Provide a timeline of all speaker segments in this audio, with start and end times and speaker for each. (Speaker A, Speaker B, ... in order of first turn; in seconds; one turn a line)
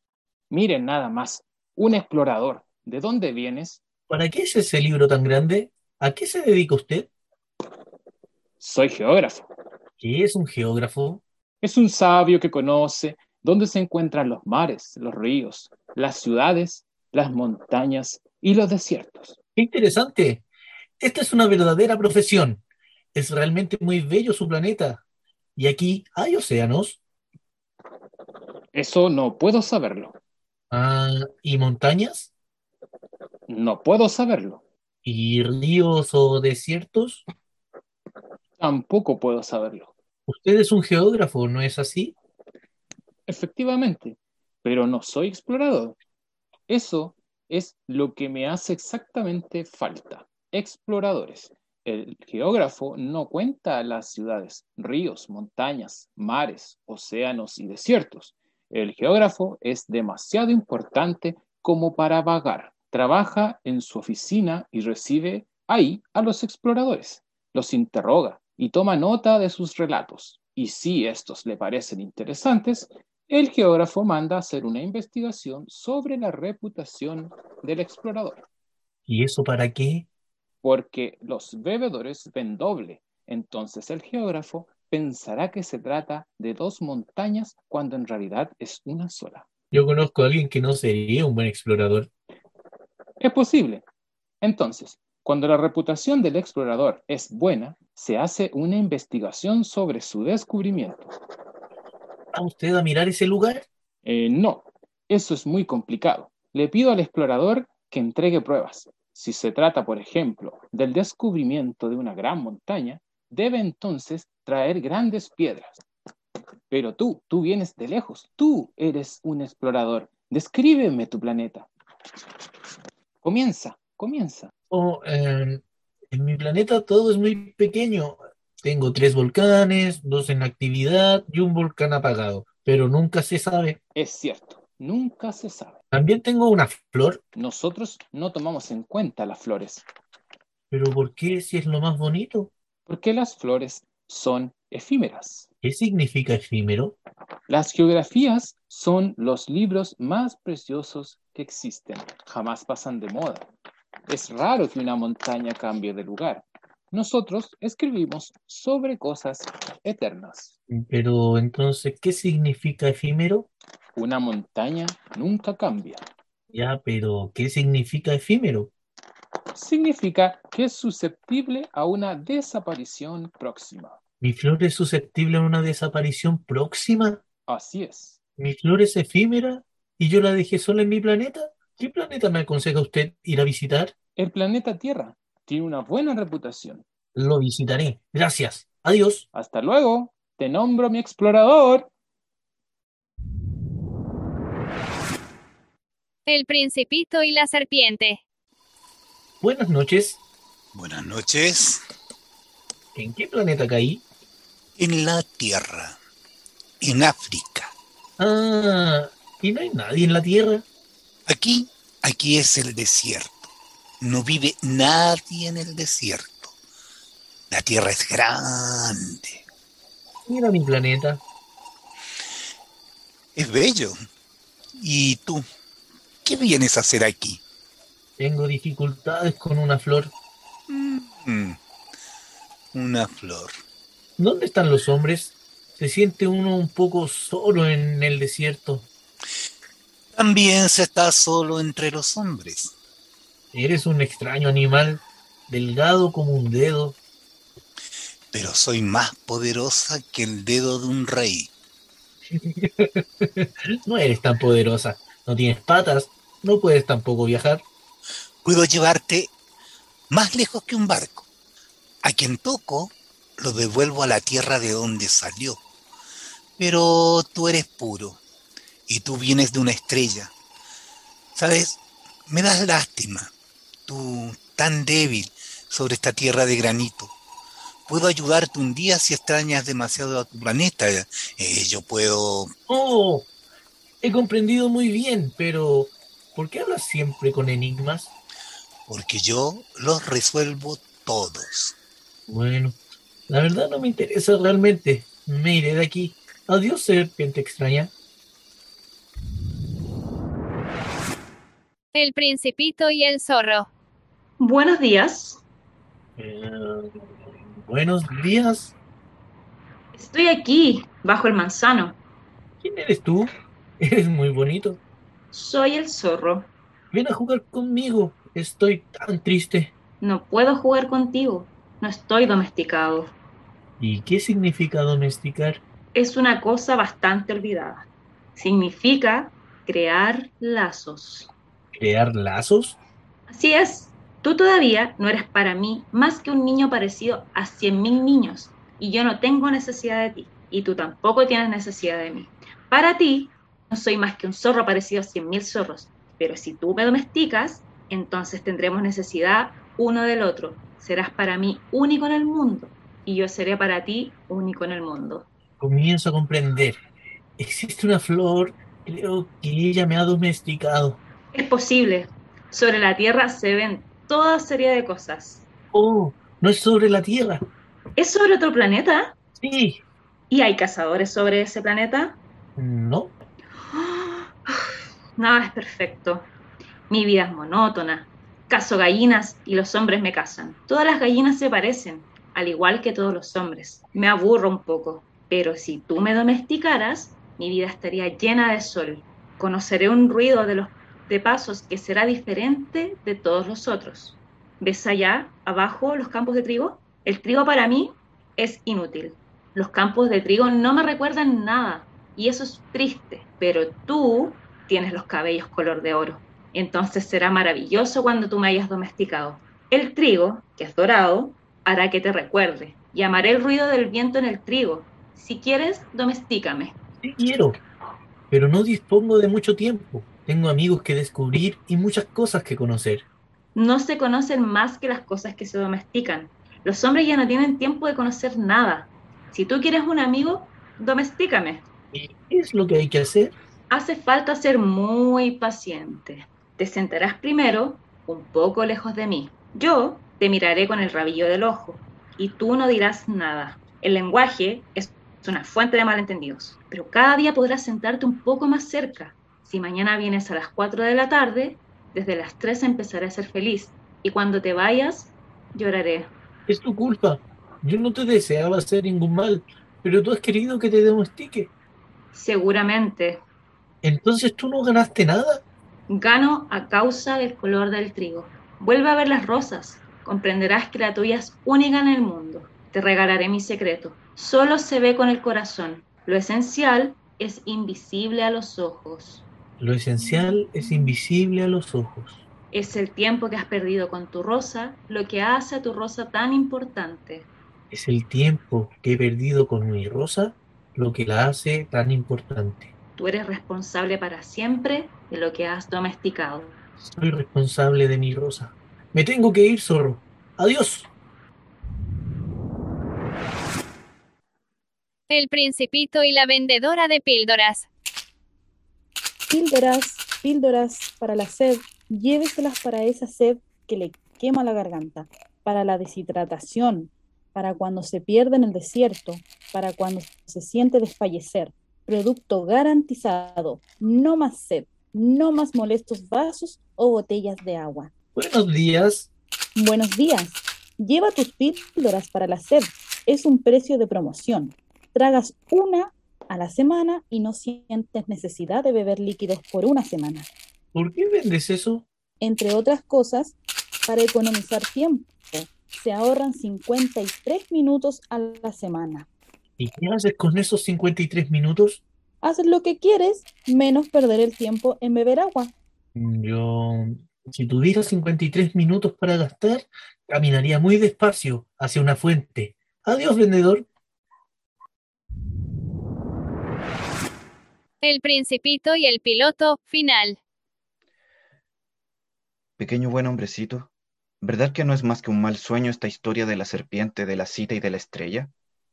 Speaker A: 0.5-3.8
Speaker B: 4.1-7.1
Speaker A: 8.6-9.5
Speaker B: 10.0-11.2
Speaker A: 11.6-19.4
Speaker B: 19.6-20.4
Speaker B: 21.0-22.6
Speaker B: 23.1-25.0
Speaker B: 25.6-27.0
Speaker A: 28.7-30.2
Speaker B: 30.7-32.3
Speaker A: 33.5-34.6
Speaker B: 35.0-37.2
Speaker A: 38.6-39.9
Speaker B: 40.3-42.1
Speaker A: 43.3-46.0
Speaker A: 46.7-78.4
Speaker B: 79.1-80.1
Speaker A: 80.6-89.5
Speaker B: 89.7-92.1
Speaker A: 93.2-93.8
Speaker A: 94.4-101.1
Speaker B: 102.3-103.7
Speaker A: 104.0-115.8
Speaker A: 116.7-121.7
Speaker A: 123.2-124.5
Speaker B: 124.7-133.8
Speaker A: 133.9-135.8
Speaker B: 135.9-137.2
Speaker A: 137.3-139.8
Speaker B: 140.7-142.5
Speaker A: 142.9-145.5
Speaker B: 145.6-146.9
Speaker A: 147.5-153.5
Speaker A: 154.1-160.5
Speaker B: 160.7-163.5
Speaker A: 163.9-166.0
Speaker B: 166.5-168.7
Speaker A: 169.5-174.0
Speaker B: 174.2-177.2
Speaker A: 177.5-178.2
Speaker B: 178.4-183.9
Speaker A: 184.2-186.8
Speaker B: 187.1-189.2
Speaker A: 189.3-191.9
Speaker C: 196.2-198.2
Speaker B: 199.4-200.2
Speaker D: 200.7-201.8
Speaker B: 202.9-204.0
Speaker D: 204.8-205.9
Speaker D: 206.8-207.7
Speaker B: 208.2-210.6
Speaker D: 211.3-213.5
Speaker D: 214.0-216.5
Speaker D: 217.5-219.4
Speaker B: 220.2-221.2
Speaker D: 223.3-223.9
Speaker D: 224.7-225.4
Speaker D: 226.2-227.4
Speaker B: 228.2-230.1
Speaker D: 230.7-231.6
Speaker D: 232.7-233.5
Speaker B: 234.2-238.9
Speaker D: 240.1-242.7
Speaker B: 243.5-247.0
Speaker D: 248.3-251.5
Speaker B: 252.3-257.6
Speaker D: 258.4-259.3
Speaker D: 260.1-261.2
Speaker D: 262.0-265.6
Speaker D: 266.6-268.2
Speaker D: 268.9-270.3
Speaker D: 271.3-273.3
Speaker D: 273.9-277.1
Speaker D: 277.9-282.5
Speaker B: 282.7-283.3
Speaker B: 284.0-288.1
Speaker D: 288.9-291.7
Speaker B: 292.3-292.8
Speaker B: 293.3-297.9
Speaker C: 301.9-303.7
Speaker E: 304.4-305.4
Speaker B: 306.2-307.0
Speaker B: 307.5-308.7
Speaker E: 309.9-312.0
Speaker B: 312.6-314.8
Speaker E: 315.3-316.5
Speaker B: 316.9-319.7
Speaker E: 320.0-323.1
Speaker B: 323.8-325.6
Speaker E: 325.9-327.8
Speaker E: 328.4-331.3
Speaker B: 331.7-332.8
Speaker E: 333.3-355.2
Speaker B: 355.6-356.8
Speaker B: 357.4-361.0
Speaker E: 361.3-365.4
Speaker B: 365.7-367.4
Speaker E: 368.0-369.1
Speaker B: 369.4-369.8
Speaker E: 370.3-372.2
Speaker B: 372.6-373.1
Speaker E: 373.7-376.3
Speaker E: 376.9-416.7
Speaker B: 417.0-417.6
Speaker B: 418.3-423.0
Speaker E: 423.5-431.6
Speaker B: 431.9-433.3
Speaker E: 433.7-456.1
Speaker B: 456.5-461.5
Speaker E: 462.1-463.2
Speaker B: 463.8-465.4
Speaker E: 465.9-479.2
Speaker B: 479.6-482.2
Speaker E: 482.5-487.3
Speaker B: 487.7-492.7
Speaker E: 493.0-496.6
Speaker B: 496.8-500.9
Speaker C: 505.1-507.7
Speaker F: 509.3-527.9
Speaker B: 528.1-529.1
Speaker F: 529.5-540.3
Speaker B: 540.7-541.9
Speaker F: 542.2-543.4
Speaker F: 543.9-549.1
Speaker B: 549.6-551.8
Speaker F: 552.2-555.5
Speaker B: 555.9-563.6
Speaker C: 567.8-570.2
Speaker G: 572.6-573.7
Speaker G: 574.2-578.3